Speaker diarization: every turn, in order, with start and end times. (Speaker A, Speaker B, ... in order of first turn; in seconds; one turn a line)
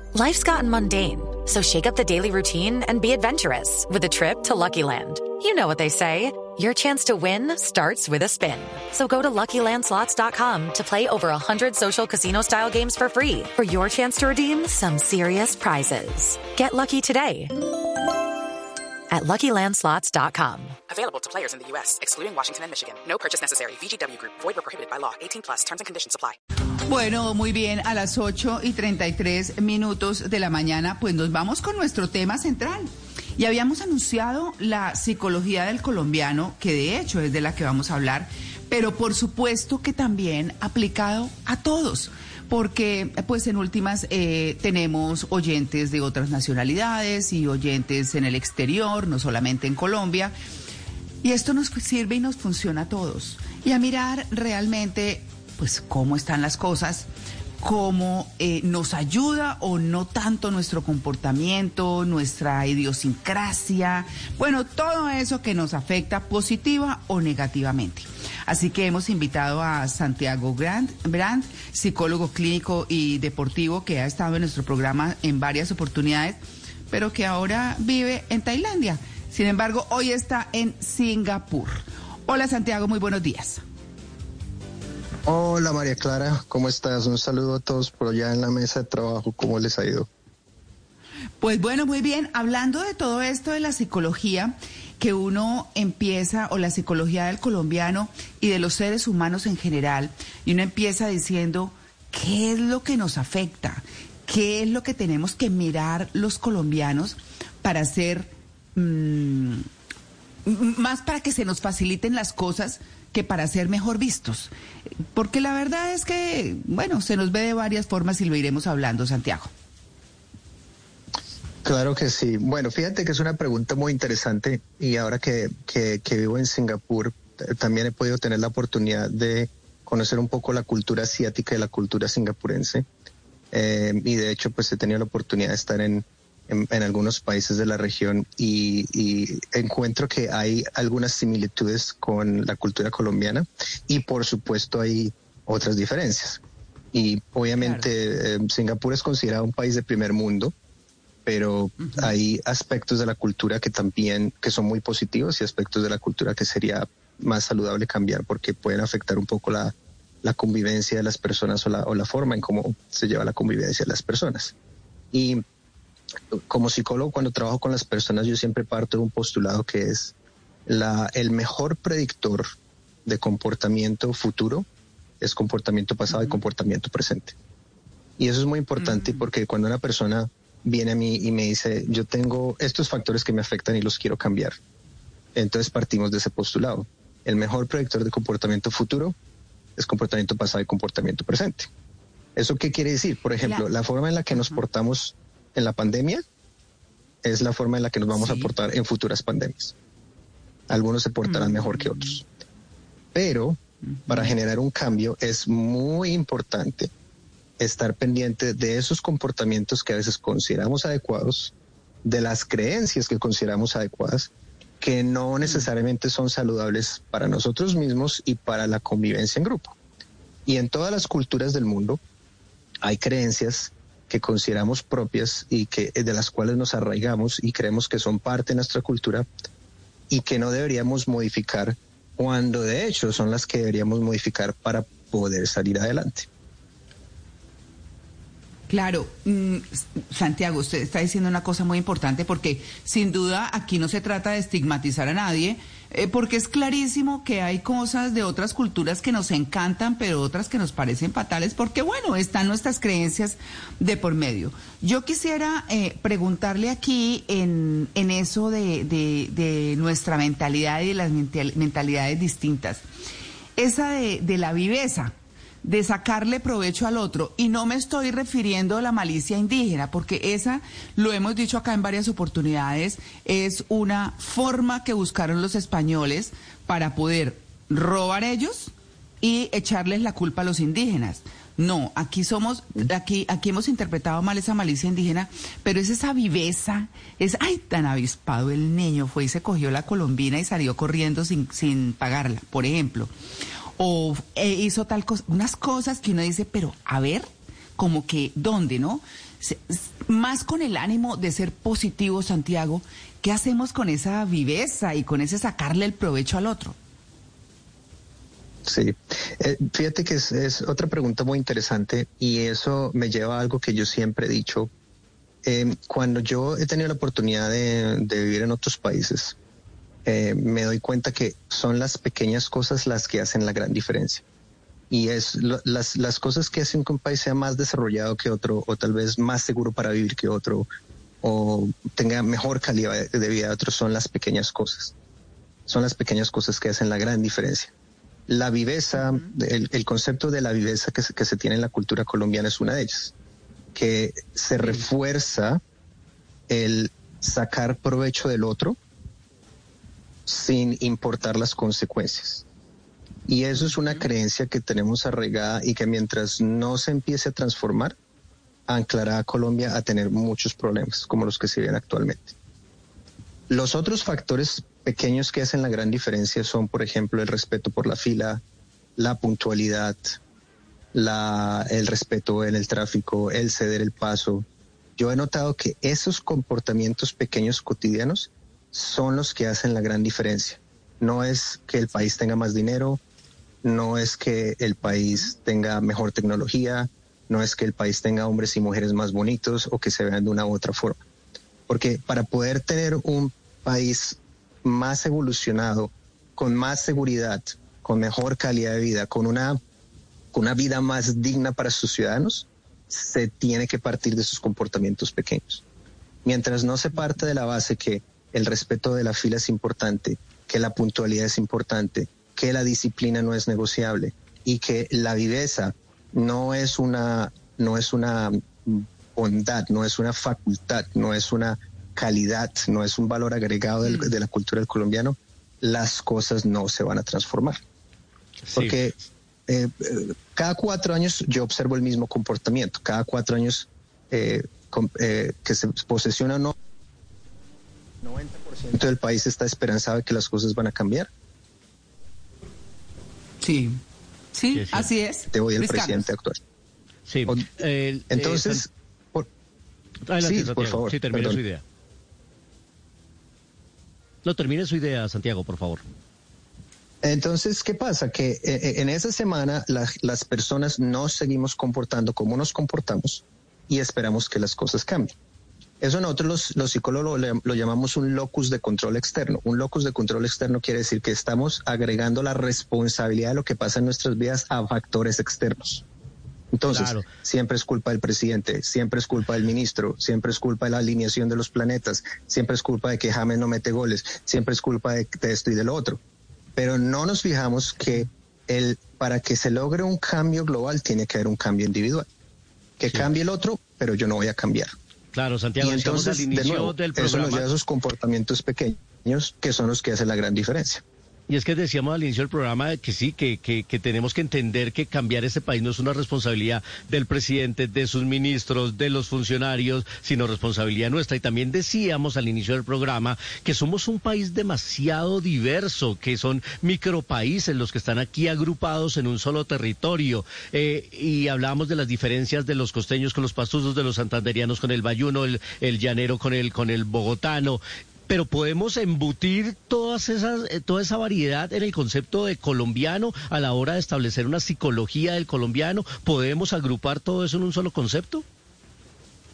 Speaker A: 0.1-17.6
Speaker A: 19.1-20.8
Speaker B: 21.0-26.3
Speaker C: 26.9-50.4
Speaker C: 51.2-57.1
Speaker C: 57.6-76.4
Speaker C: 76.9-83.6
Speaker D: 85.3-90.1
Speaker C: 91.4-109.7
Speaker C: 110.5-114.5
Speaker C: 115.1-119.5
Speaker D: 121.6-132.9
Speaker D: 133.5-146.4
Speaker D: 146.9-150.5
Speaker C: 147.6-147.8
Speaker D: 151.3-164.5
Speaker C: 151.8-152.1
Speaker D: 165.1-165.4
Speaker D: 166.3-170.1
Speaker D: 170.7-172.5
Speaker D: 173.1-174.7
Speaker D: 175.2-177.4
Speaker C: 176.1-176.4
Speaker D: 178.2-184.6
Speaker C: 178.8-179.3
Speaker D: 185.3-189.2
Speaker D: 189.8-191.7
Speaker D: 192.4-196.2
Speaker D: 197.2-199.8
Speaker C: 198.2-198.5
Speaker D: 200.7-202.2
Speaker C: 201.3-202.2
Speaker D: 203.1-206.9
Speaker D: 207.6-211.5
Speaker D: 212.0-219.8
Speaker D: 220.5-222.0
Speaker D: 222.8-229.3
Speaker D: 230.1-236.3
Speaker C: 238.7-262.8
Speaker C: 263.6-293.1
Speaker C: 293.8-306.8
Speaker D: 308.7-314.7
Speaker D: 315.4-319.4
Speaker D: 320.1-324.2
Speaker D: 324.9-330.7
Speaker D: 331.2-334.9
Speaker D: 335.7-337.7
Speaker D: 338.3-343.1
Speaker D: 343.8-345.6
Speaker D: 346.5-348.8
Speaker D: 350.3-352.4
Speaker D: 353.3-358.0
Speaker D: 358.7-362.4
Speaker D: 363.5-368.4
Speaker D: 369.0-370.2
Speaker D: 370.9-374.5
Speaker D: 375.0-383.0
Speaker D: 383.6-391.0
Speaker D: 391.7-399.6
Speaker D: 400.3-405.6
Speaker D: 406.2-427.6
Speaker C: 423.8-424.1
Speaker E: 428.4-428.8
Speaker D: 428.5-429.0
Speaker D: 429.5-436.6
Speaker D: 438.0-441.1
Speaker C: 443.4-443.8
Speaker C: 444.3-446.1
Speaker E: 444.5-444.9
Speaker D: 445.3-446.4
Speaker E: 447.1-448.6
Speaker D: 448.1-449.3
Speaker E: 450.1-451.6
Speaker D: 450.2-451.4
Speaker E: 454.2-455.8
Speaker D: 457.0-465.1
Speaker D: 465.8-475.8
Speaker D: 476.5-486.0
Speaker E: 476.7-477.1
Speaker D: 486.6-492.1
Speaker D: 492.8-494.8
Speaker E: 495.1-497.5
Speaker D: 495.6-500.8
Speaker E: 501.3-538.2